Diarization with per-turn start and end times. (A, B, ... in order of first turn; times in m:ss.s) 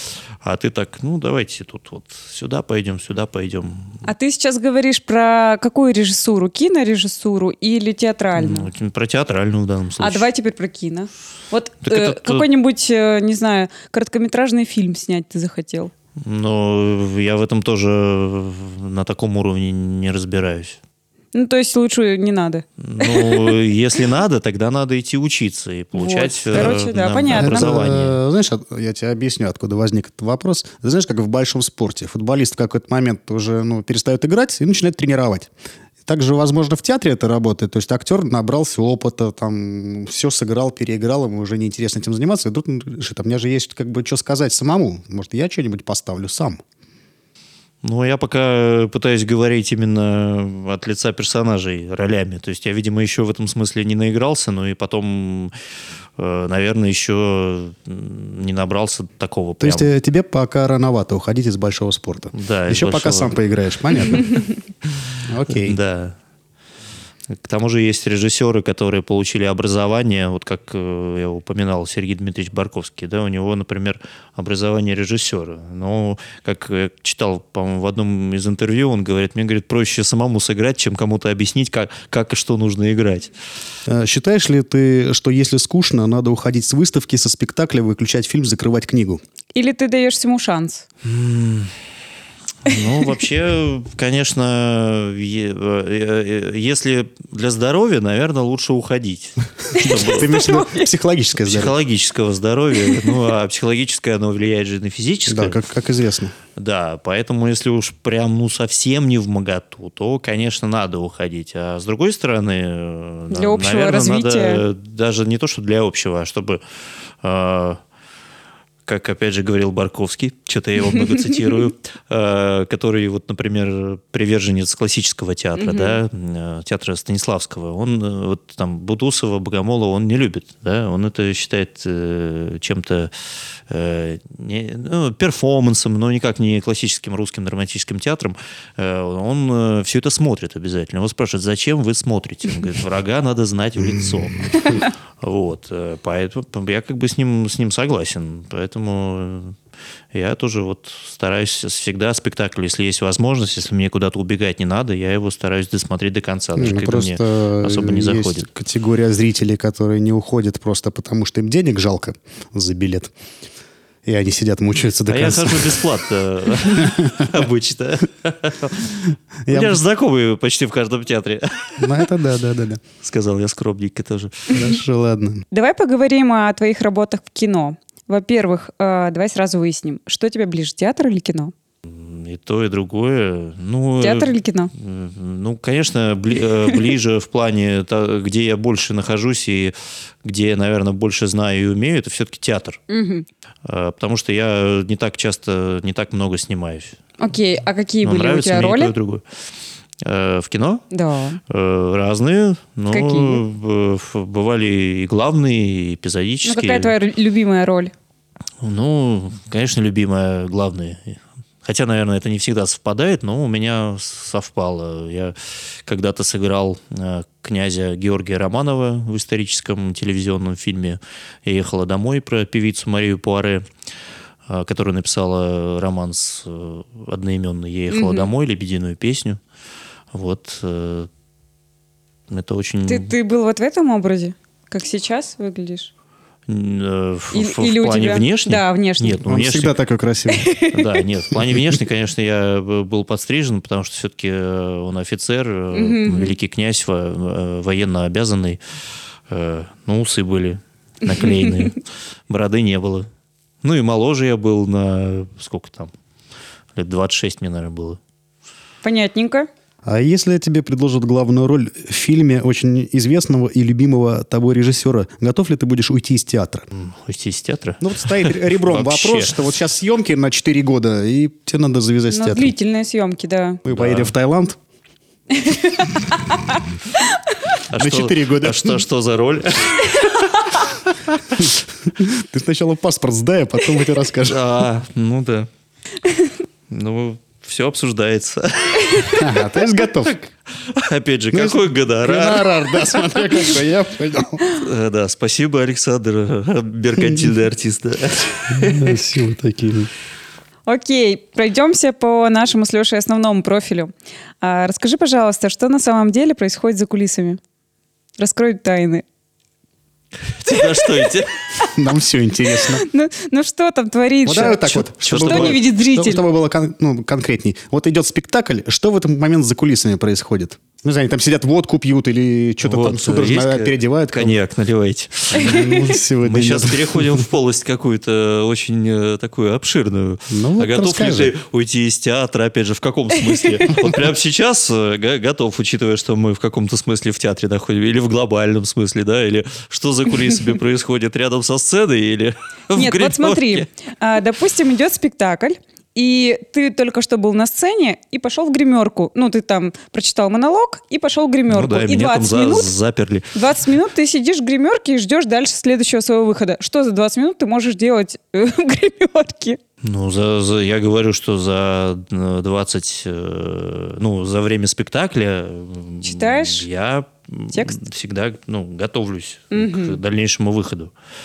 0:00.4-0:04.0 A
0:04.0-0:08.7 B
0:08.3-0:10.3 A
0:10.0-0:15.9 B
0:11.8-0:12.4 A
0:16.2-0:20.8 A
0:21.3-0:23.6 B
0:22.8-0:28.2 A
0:25.9-0:27.8 B
0:27.3-0:35.5 C
0:36.0-0:46.6 C
0:47.8-0:55.5 A
0:56.2-0:59.9 A
0:59.6-1:04.4 C
1:02.3-1:03.4 A
1:04.9-1:06.2 A
1:05.2-1:05.8 C
1:07.3-1:23.3 A
1:23.9-1:29.2 C
1:29.5-1:30.8 B
1:31.0-1:31.7 A
1:32.6-1:40.5 A
1:39.7-1:40.9 B
1:39.8-1:41.7 C
1:41.3-1:45.6 A
1:45.3-1:46.3 C
1:46.6-1:56.6 A
1:53.3-1:54.6 B
1:57.2-1:57.8 A
1:58.8-2:13.1 A
2:05.6-2:06.0 B
2:13.7-2:29.6 A
2:30.1-2:38.5 A
2:36.6-2:43.1 C
2:44.0-2:45.9 C
2:45.1-2:52.0 A
2:46.8-2:47.3 C
2:49.5-2:49.8 C
2:51.8-2:52.8 C
2:53.0-2:54.7 A
2:54.5-2:55.4 C
2:55.5-3:01.5 B
3:01.8-3:12.8 A
3:04.0-3:04.7 B
3:12.9-3:13.3 B
3:13.6-3:17.0 A
3:17.2-3:18.9 B
3:18.0-3:19.2 A
3:20.0-3:20.8 A
3:20.9-3:21.4 B
3:21.5-3:26.9 A
3:22.9-3:23.4 B
3:26.4-3:27.9 B
3:28.6-3:43.6 A
3:44.5-3:49.4 A
3:47.9-3:48.3 B
3:50.1-3:51.1 A
3:52.3-3:53.1 A
3:52.9-3:55.9 B
3:56.5-3:59.8 A
3:57.3-3:59.2 B
3:59.2-4:00.5 C
4:00.3-4:01.0 B
4:00.7-4:08.6 A
4:05.7-4:06.3 B
4:09.3-4:13.1 A
4:13.6-4:15.9 A
4:16.7-4:18.0 A
4:18.8-4:19.5 B
4:19.8-4:26.7 C
4:26.7-4:29.4 A
4:27.8-4:32.5 C
4:32.1-4:33.6 B
4:33.6-4:34.6 C
4:33.7-4:34.1 A
4:35.3-4:37.0 B
4:37.7-4:40.9 A
4:37.8-4:38.8 C
4:41.4-4:44.5 C
4:44.2-4:45.5 A
4:46.7-4:53.4 A
4:49.1-4:50.2 C
4:51.3-4:54.4 C
4:54.4-4:59.0 A
4:58.5-4:59.9 C
5:00.6-5:07.4 B
5:08.2-5:09.0 B
5:10.2-5:11.3 A
5:10.5-5:11.2 B
5:11.7-5:12.8 C
5:12.7-5:16.2 B
5:14.2-5:24.4 C
5:15.0-5:15.6 A
5:22.6-5:43.7 A
5:25.3-5:27.2 C
5:25.5-5:25.8 B
5:30.3-5:31.3 C
5:42.7-5:52.7 B
5:51.5-5:53.3 A
5:53.3-5:59.6 B
5:59.8-6:10.9 A
6:06.0-6:06.6 B
6:09.5-6:10.0 B